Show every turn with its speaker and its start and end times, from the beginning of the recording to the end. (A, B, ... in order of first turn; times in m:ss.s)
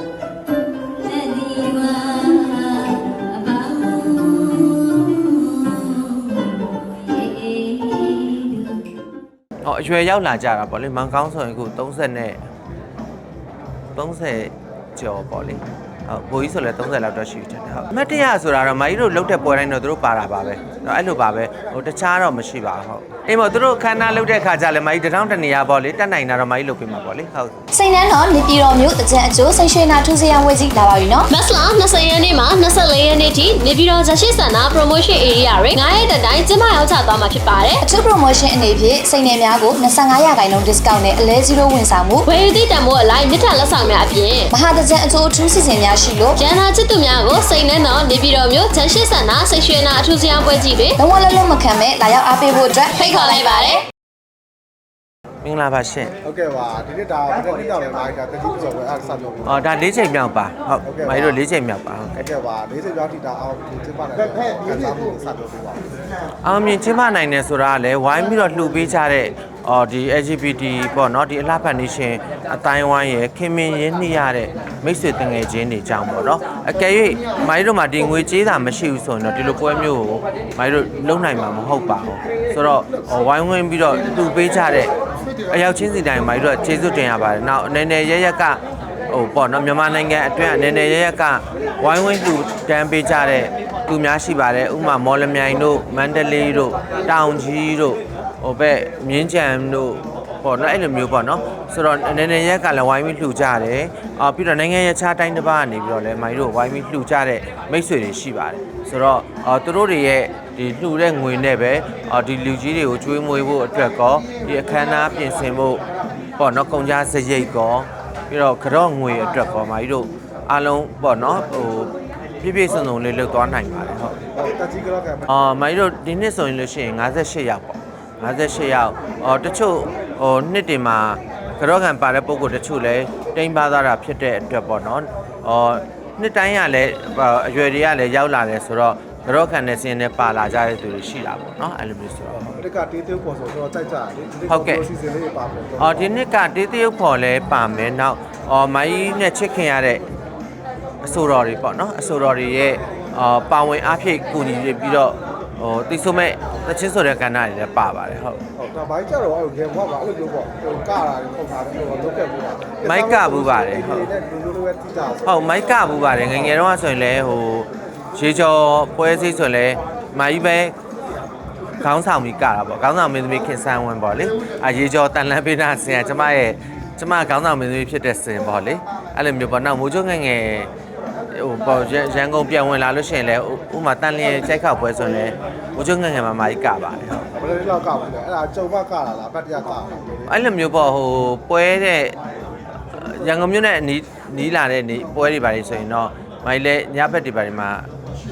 0:00.9-0:08.8 A
0:09.6-0:12.4 B
0:13.9-0:27.5 B
0:27.7-0:31.3 C
0:31.3-0:37.8 A
0:37.8-0:42.3 C
0:42.2-0:44.5 A
0:44.5-0:46.4 C
0:46.3-0:51.0 A
0:51.0-0:53.7 C
0:52.9-0:53.8 A
0:55.4-0:56.1 B
0:56.2-0:59.6 D
0:59.4-1:02.2 B
1:00.8-1:01.4 D
1:02.2-1:05.8 D
1:06.4-1:24.9 B
1:25.5-1:55.8 B
1:56.4-2:04.2 B
2:04.3-2:05.3 D
2:05.3-2:22.4 B
2:22.4-2:26.1 D
2:24.5-2:24.9 B
2:25.8-2:30.0 B
2:31.0-2:38.4 B
2:38.6-2:45.8 D
2:42.8-2:44.1 B
2:45.2-2:50.7 B
2:51.8-3:00.7 B
3:01.3-3:07.3 B
3:07.4-3:10.4 D
3:10.3-3:12.2 B
3:12.9-3:17.9 B